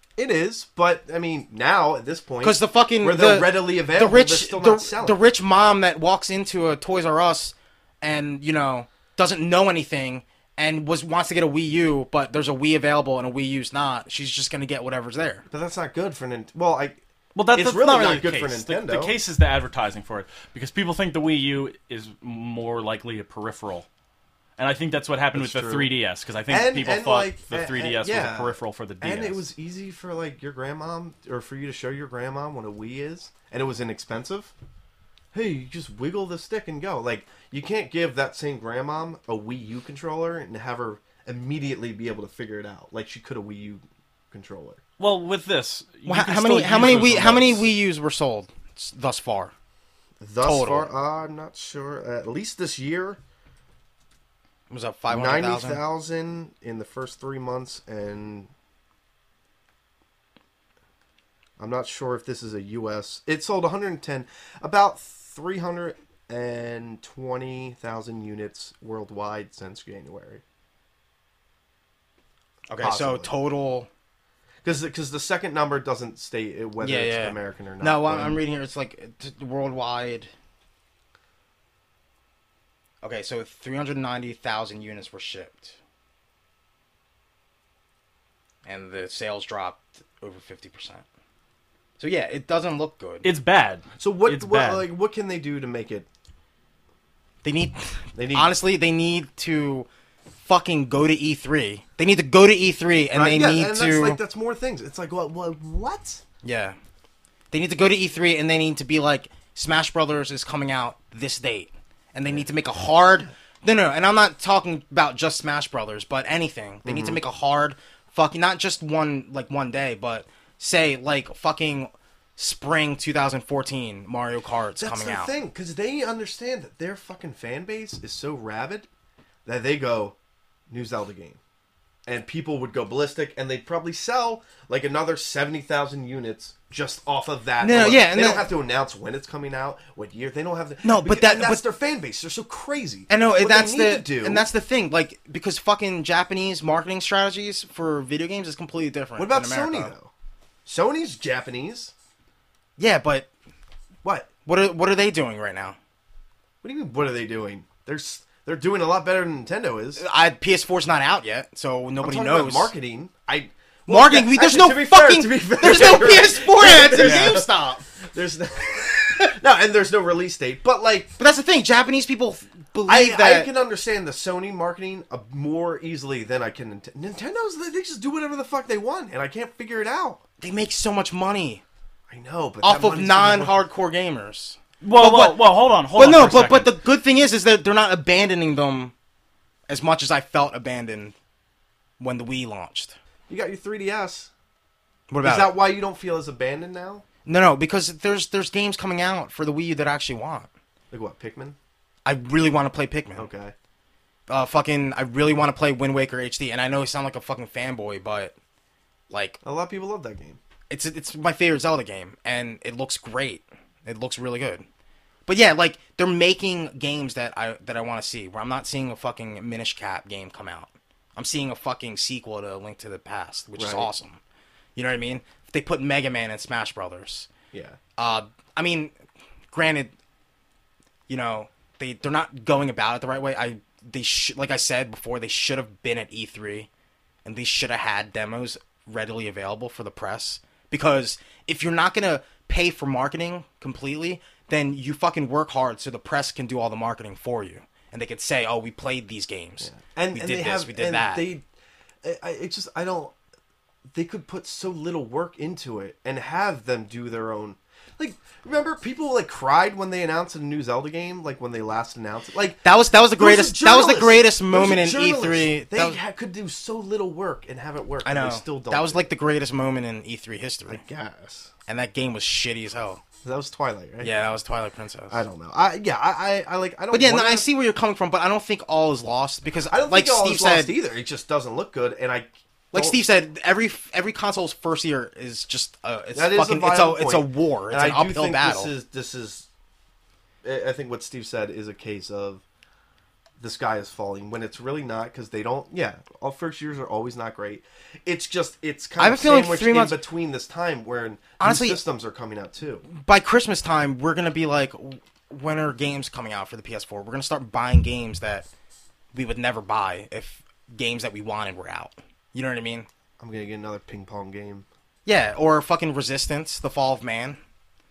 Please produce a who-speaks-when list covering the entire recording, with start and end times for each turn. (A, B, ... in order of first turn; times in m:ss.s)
0:00.2-0:05.2 A
0:02.4-0:15.4 B
0:15.5-0:17.0 A
0:17.3-0:23.9 C
0:17.5-0:19.1 A
0:24.6-0:29.4 C
0:25.3-0:25.9 A
0:26.5-0:34.5 A
0:35.3-0:44.8 A
0:45.0-0:47.6 C
0:46.0-0:49.5 B
0:50.2-0:53.2 A
0:50.4-0:50.9 B
0:54.7-0:55.8 B
0:55.1-0:58.5 A
1:01.6-1:10.4 A
1:12.7-1:13.9 B
1:12.8-1:13.3 A
1:14.6-1:18.4 A
1:16.8-1:20.3 B
1:23.0-1:25.8 B
1:28.6-1:31.0 B
1:32.0-1:33.3 B
1:33.2-1:34.9 C
1:34.0-1:36.0 A
1:37.4-1:39.9 B
1:38.1-1:38.5 A
1:40.4-1:44.2 B
1:43.1-1:46.2 A
1:46.4-1:46.8 B
1:47.5-2:05.3 B
1:56.8-1:57.2 A
2:04.8-2:08.9 A
2:09.4-2:10.1 A
2:10.7-2:11.4 A
2:12.0-2:24.4 A
2:17.6-2:18.5 B
2:20.8-2:21.6 B
2:23.1-2:29.9 B
2:29.2-2:30.1 A
2:30.6-2:31.9 A
2:32.8-2:33.3 B
2:34.0-2:34.3 A
2:34.4-2:35.8 B
2:36.6-2:40.0 A
2:40.0-2:42.7 B
2:42.0-2:51.1 A
2:43.9-2:47.8 B
2:47.0-2:47.3 C
2:51.2-2:53.5 B
2:52.8-3:00.2 A
3:00.4-3:01.6 B
3:02.1-3:03.6 A
3:02.6-3:08.9 B
3:04.8-3:06.7 C
3:09.7-3:11.1 B
3:12.0-3:12.9 B
3:13.3-3:14.3 A
3:15.1-3:15.5 B
3:15.2-3:17.0 A
3:17.2-3:20.5 B
3:20.9-3:21.6 A
3:22.0-3:23.3 B
3:23.2-3:23.5 A
3:24.3-3:28.3 B
3:29.1-3:29.4 B
3:29.4-3:30.4 A
3:30.7-3:34.6 B
3:35.3-3:44.2 B
3:43.6-3:43.9 A
3:44.8-3:47.3 B
3:47.5-3:47.8 A
3:48.0-3:48.9 B
3:49.5-3:49.9 B
3:51.1-3:56.7 B
3:57.2-4:11.3 B
4:09.6-4:11.4 A
4:12.0-4:13.1 A
4:13.9-4:29.1 A
4:22.6-4:26.0 B
4:28.0-4:30.8 B
4:30.7-4:31.5 A
4:31.7-4:33.0 B
4:33.2-4:34.2 A
4:34.0-4:35.2 B
4:35.1-4:37.5 A
4:36.9-4:40.7 B
4:39.7-4:43.0 A
4:42.7-4:48.7 B
4:46.1-4:49.5 A
4:50.4-4:52.4 A
4:53.4-5:02.9 A
4:59.0-5:00.0 B
5:01.4-5:01.8 B
5:02.9-5:08.5 B
5:09.1-5:12.9 B
5:13.2-5:14.6 A
5:15.0-5:17.4 B